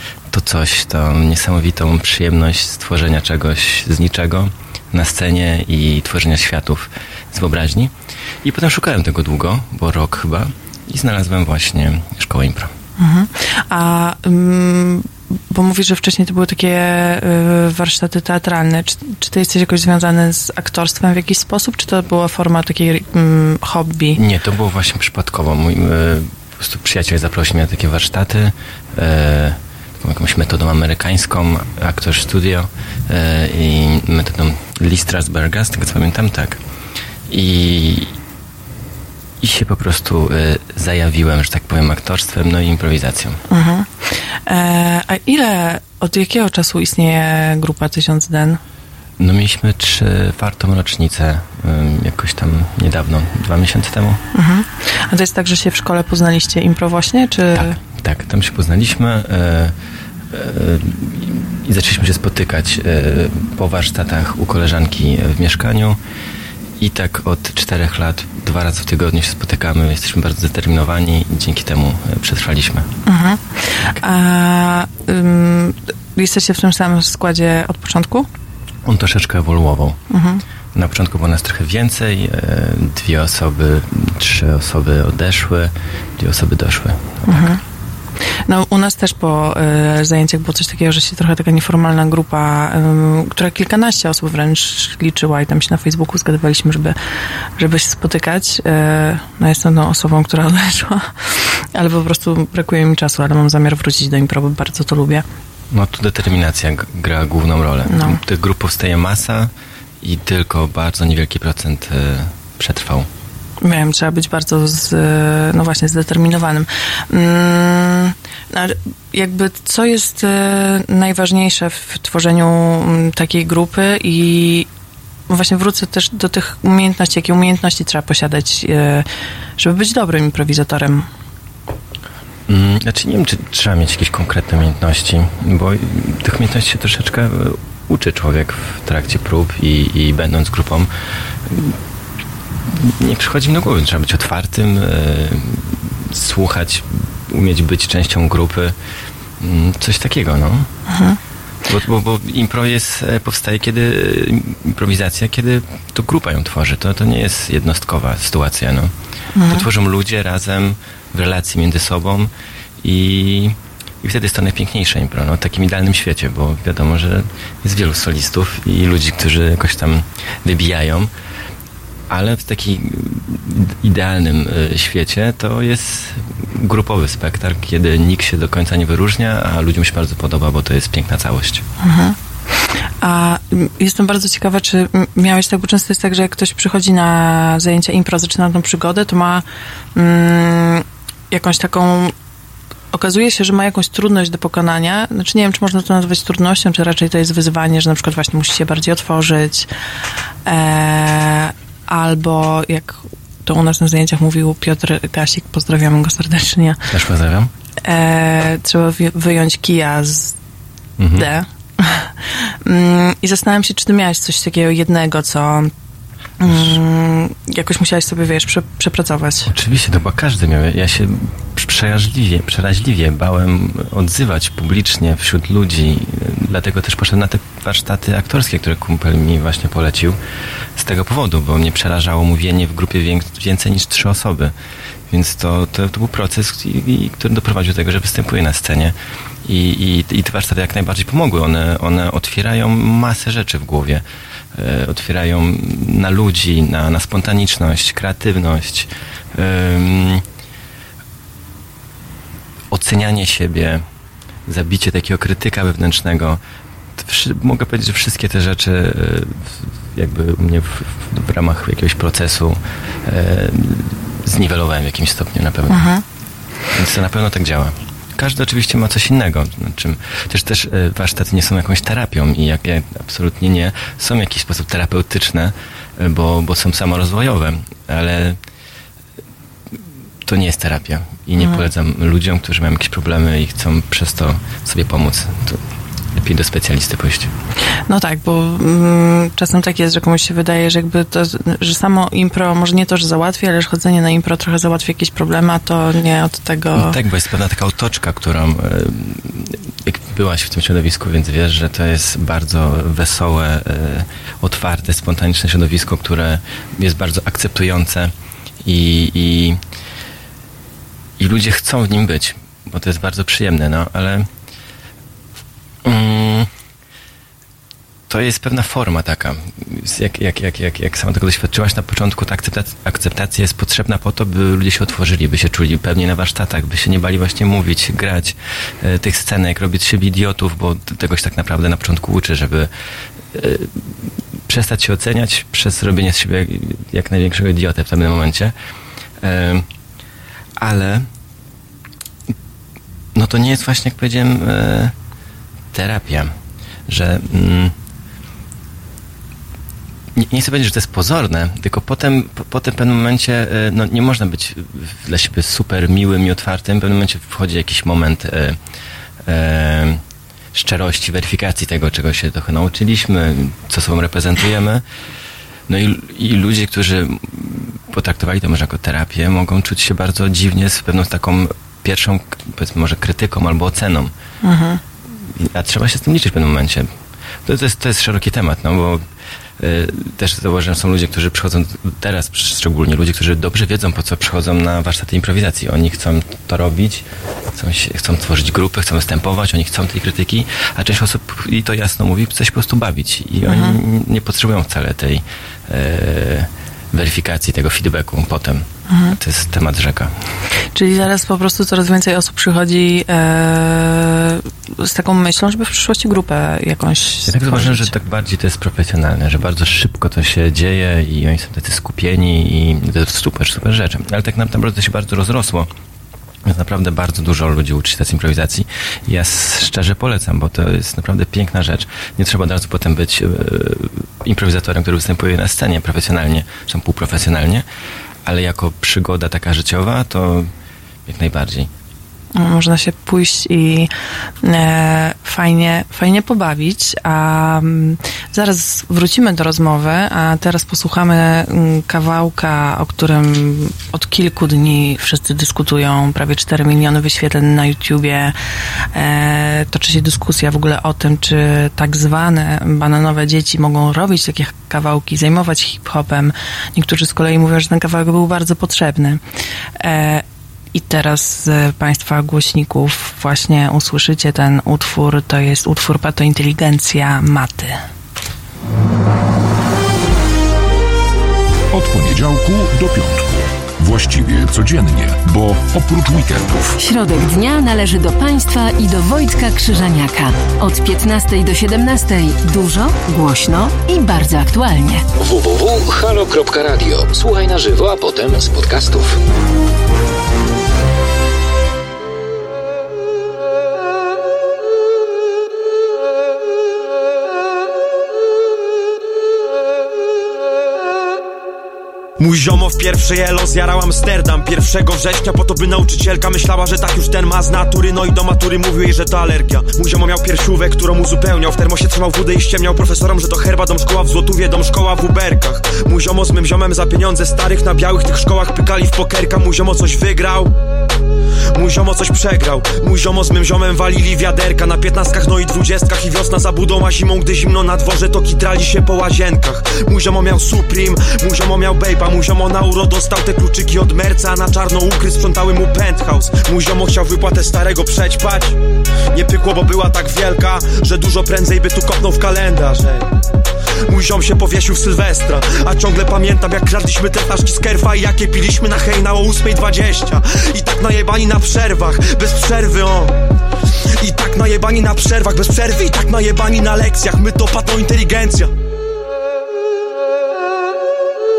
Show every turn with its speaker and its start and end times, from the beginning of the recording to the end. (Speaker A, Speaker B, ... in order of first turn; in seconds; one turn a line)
Speaker A: 0.3-12.7
Speaker B: 13.0-24.2
Speaker A: 24.1-36.6
Speaker A: 37.3-38.1
Speaker A: 39.4-43.4
Speaker B: 43.5-48.6
Speaker A: 49.2-54.2
Speaker B: 54.3-57.8
Speaker A: 57.5-59.7
Speaker A: 60.3-66.0
Speaker A: 66.8-72.9
Speaker B: 73.0-78.3
Speaker A: 78.8-80.0
Speaker B: 80.1-80.4
Speaker A: 80.7-87.5
Speaker B: 87.2-87.6
Speaker B: 88.5-97.0
Speaker B: 97.6-105.2
Speaker A: 105.7-113.1
Speaker B: 107.9-108.2
Speaker B: 113.6-124.7
Speaker B: 125.3-131.1
Speaker A: 132.5-140.9
Speaker A: 141.5-141.8
Speaker A: 142.7-148.8
Speaker A: 149.4-150.7
Speaker B: 150.9-151.2
Speaker A: 151.7-158.9
Speaker B: 159.3-159.7
Speaker A: 159.4-171.1
Speaker A: 172.1-181.7
Speaker B: 181.8-182.2
Speaker B: 183.0-192.1
Speaker B: 192.9-199.7
Speaker B: 200.4-206.8
Speaker A: 206.9-207.5
Speaker B: 207.8-210.4
Speaker A: 211.0-211.3
Speaker B: 211.1-215.7
Speaker B: 216.4-219.5
Speaker A: 216.4-216.8
Speaker A: 219.5-230.2
Speaker A: 230.8-234.5
Speaker A: 235.1-250.2
Speaker A: 252.7-253.8
Speaker A: 254.5-256.4
Speaker A: 257.0-265.9
Speaker B: 265.7-266.0
Speaker A: 266.7-278.4
Speaker A: 280.2-285.6
Speaker A: 286.1-287.3
Speaker B: 287.9-296.9
Speaker A: 296.7-308.1
Speaker A: 308.6-309.6
Speaker A: 311.2-314.3
Speaker A: 315.8-316.5
Speaker A: 318.1-332.7
Speaker A: 333.3-338.5
Speaker A: 339.2-339.6
Speaker A: 340.6-341.1
Speaker A: 343.1-344.9
Speaker A: 345.7-346.3
Speaker A: 346.9-347.7
Speaker A: 350.1-358.6
Speaker A: 359.2-360.0
Speaker A: 360.5-364.8
Speaker A: 365.7-374.1
Speaker B: 374.4-374.8
Speaker A: 375.2-376.9
Speaker A: 377.4-379.0
Speaker A: 379.6-400.1
Speaker B: 393.5-393.8
Speaker B: 398.9-399.2
Speaker B: 400.7-407.9
Speaker A: 407.3-415.7
Speaker A: 416.4-427.6
Speaker A: 428.2-430.5
Speaker A: 431.1-431.7
Speaker B: 432.3-448.4
Speaker B: 448.9-459.2
Speaker B: 459.8-467.8
Speaker C: 471.7-476.8
Speaker D: 476.8-485.1
Speaker E: 485.2-489.2
Speaker F: 502.2-520.5
Speaker F: 521.5-538.6
Speaker F: 539.1-543.1
Speaker F: 543.9-553.1
Speaker F: 554.0-558.5